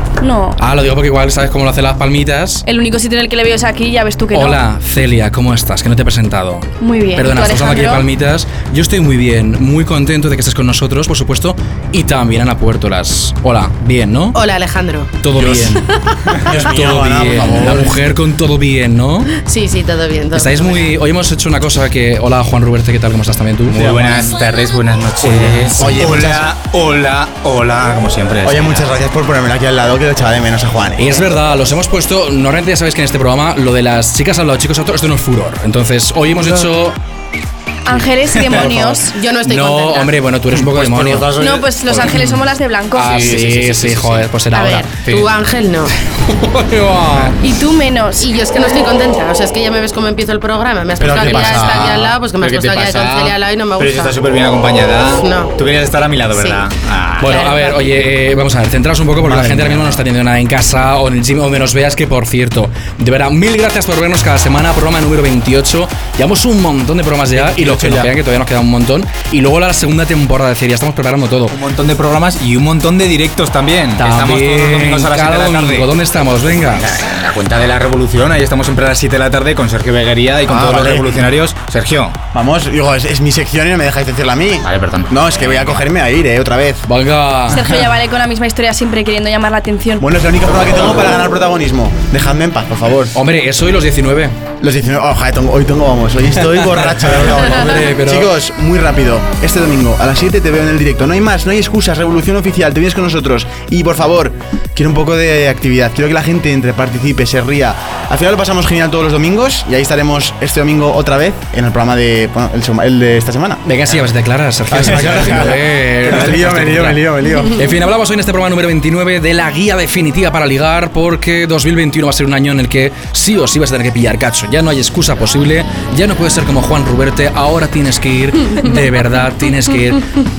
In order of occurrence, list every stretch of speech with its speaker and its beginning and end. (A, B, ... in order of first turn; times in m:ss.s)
0:00.2-0:00.6 A
0:00.6-0:02.6 B
0:02.7-0:04.6 A
0:04.3-0:14.4 B
0:06.8-0:08.1 A
0:14.3-0:15.1 C
0:15.2-0:15.9 B
0:15.4-0:15.8 D
0:16.3-0:18.0 D
0:16.5-0:19.3 B
0:19.4-0:20.9 C
0:20.3-0:24.3 B
0:23.7-0:28.9 E
0:25.2-0:26.0 B
0:25.8-0:26.5 D
0:28.4-0:31.4 D
0:31.0-0:37.0 B
0:37.9-0:39.2 A
0:38.4-0:38.7 E
0:38.6-0:38.9 B
0:39.2-0:40.2 C
0:39.5-0:41.3 B
0:40.6-0:42.3 E
0:41.4-0:43.3 A
0:42.9-0:44.9 B
0:43.1-0:44.3 E
0:44.5-0:45.9 C
0:45.0-0:45.3 E
0:46.4-0:47.4 B
0:47.4-0:48.8 A
0:48.2-0:54.2 C
0:51.0-0:52.1 D
0:51.0-0:57.5 E
0:55.2-0:55.5 C
0:56.3-0:56.6 C
0:57.2-1:11.6 B
0:57.2-0:58.0 C
0:59.2-1:00.0 D
1:07.6-1:08.0 E
1:07.7-1:08.0 D
1:11.5-1:15.9 E
1:14.0-1:16.9 B
1:16.8-1:22.2 E
1:20.5-1:21.3 D
1:22.3-1:26.8 D
1:24.6-1:25.8 E
1:26.9-1:27.7 B
1:27.5-1:30.0 A
1:30.0-1:33.2 D
1:33.1-1:34.4 B
1:34.6-1:53.6 D
1:36.6-1:38.3 B
1:53.6-2:10.1 B
1:54.7-1:57.6 D